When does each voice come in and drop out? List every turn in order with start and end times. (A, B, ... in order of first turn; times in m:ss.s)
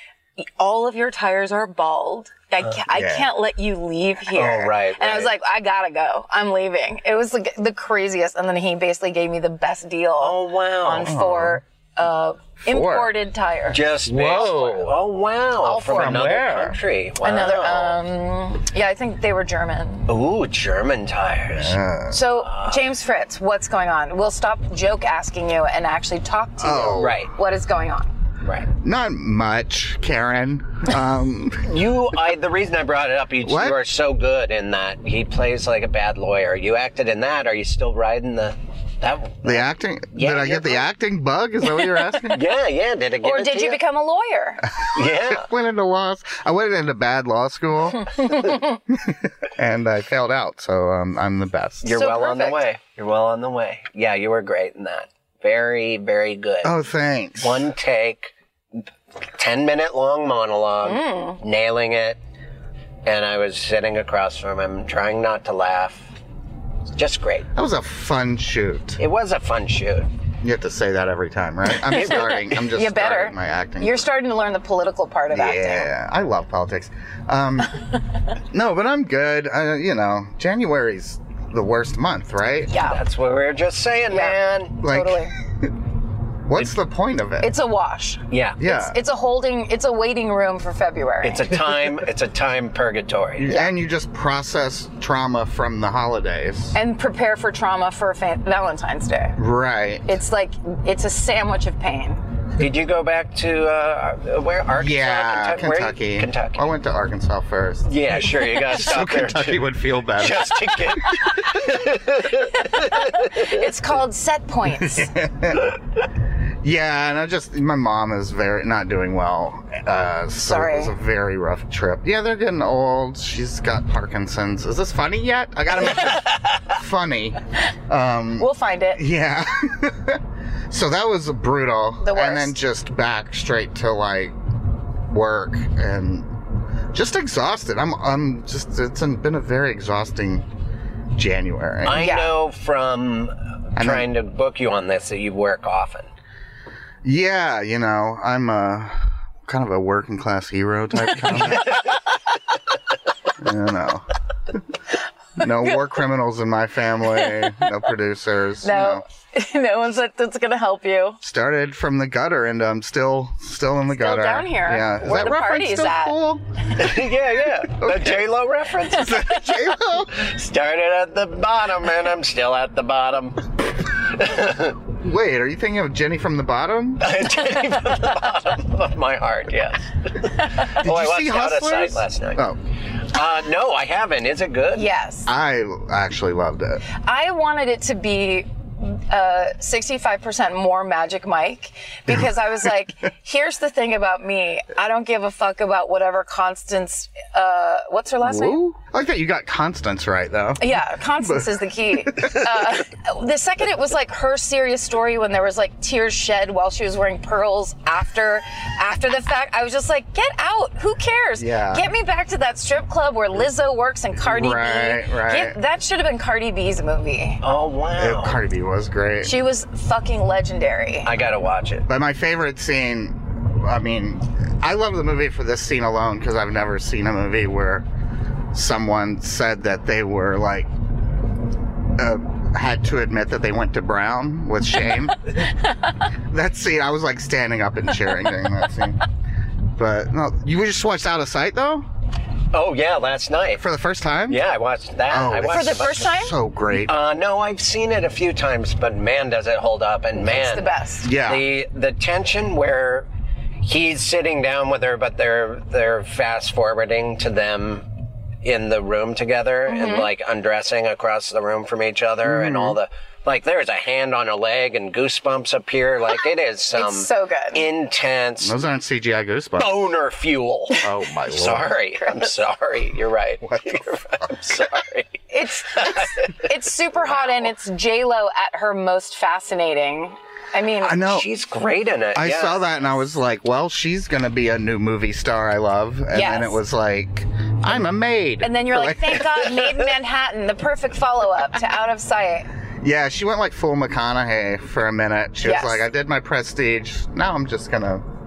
0:00.4-0:13.8 A
0:02.9-0:03.3 B
0:04.3-0:05.3 C
0:10.2-0:11.1 C
0:11.0-0:11.6 B
0:12.7-0:13.1 B
0:13.7-0:18.0 C
0:14.0-0:15.1 B
0:15.6-0:16.8 B
0:15.7-0:16.2 A
0:17.2-0:20.1 A
0:20.1-0:21.8 C
0:21.5-0:22.2 B
0:22.1-0:28.1 A
0:22.4-0:22.9 C
0:26.6-0:27.2 B
0:27.0-0:27.3 C
0:28.4-0:28.7 C
0:28.7-0:31.8 B
0:31.6-0:40.9 C
0:33.4-0:33.8 B
0:39.4-0:42.5 B
0:42.3-0:43.8 C
0:43.2-0:44.7 A
0:44.8-0:52.0 B
0:44.9-0:45.5 C
0:51.8-0:56.8 C
0:51.9-0:52.6 A
0:56.6-0:57.7 B
0:57.4-1:02.2 C
1:00.8-1:01.4 A
1:03.0-1:06.2 C
1:06.9-1:07.5 C
1:07.6-1:09.0 B
1:09.0-1:10.1 C
1:10.4-1:14.1 B
1:11.9-1:12.4 C
1:11.9-1:15.9 A
1:15.3-1:17.9 B
1:18.4-1:22.7 B
1:22.7-1:23.0 A
1:22.8-1:24.8 C
1:24.1-1:25.3 A
1:24.8-1:25.7 B
1:26.4-1:27.5 B
1:27.4-1:31.6 A
1:28.3-1:28.6 C
1:28.6-1:29.0 B
1:31.2-1:33.5 C
1:33.4-1:36.8 B
1:36.7-1:39.4 A
1:39.4-1:40.1 B
1:40.1-1:42.2 A
1:42.6-1:46.7 C
1:44.8-1:51.0 B
1:47.9-1:53.7 C
1:52.6-1:55.1 A
1:54.7-1:55.8 B
1:56.6-2:14.4 B
2:00.4-2:00.9 A
2:08.4-2:09.0 A
2:12.0-2:12.6 A
2:15.1-2:16.4 B
2:16.9-2:20.5 B
2:21.2-2:22.1 B
2:21.8-2:26.1 C
2:21.9-2:22.4 A
2:23.8-2:24.1 B
2:27.0-2:31.9 B
2:33.4-2:34.6 B
2:35.4-2:39.0 B
2:37.1-2:37.7 A
2:38.6-2:41.2 A
2:41.2-2:47.0 B
2:43.9-2:46.2 A
2:46.8-2:49.3 C
2:47.7-2:48.3 B
2:48.9-2:50.2 B
2:50.0-2:54.8 C
2:54.9-2:57.1 B
2:57.0-3:02.4 C
3:00.6-3:02.6 B
3:03.0-3:04.9 C
3:04.8-3:05.3 A
3:05.3-3:06.8 B
3:06.9-3:18.6 A
3:18.2-3:22.8 B
3:20.6-3:37.4 A
3:31.4-3:31.9 B
3:34.2-3:35.6 B
3:37.4-3:38.4 C
3:38.0-3:39.4 B
3:39.2-3:41.1 A
3:41.0-3:41.9 C
3:41.9-3:47.9 B
3:48.5-3:50.7 B
3:52.0-3:55.5 B
3:56.3-3:59.0 B
3:59.8-4:01.9 B
4:02.5-4:03.6 C
4:03.6-4:04.4 B
4:04.3-4:06.1 C
4:05.1-4:06.9 B
4:05.5-4:06.4 A
4:06.8-4:13.1 C
4:10.2-4:11.1 A
4:11.0-4:11.5 B
4:13.6-4:17.9 C
4:18.4-4:28.6 C
4:19.7-4:20.1 A
4:22.2-4:22.8 B
4:26.7-4:27.7 A
4:28.4-4:29.8 B
4:29.6-4:36.3 C
4:30.8-4:31.8 B
4:33.4-4:34.5 B
4:35.3-4:41.0 A
4:40.8-4:41.3 B
4:40.9-4:42.6 C
4:42.1-4:49.7 B
4:46.1-4:46.6 A
4:48.4-4:52.5 A
4:52.8-4:58.0 B
4:55.4-4:55.9 A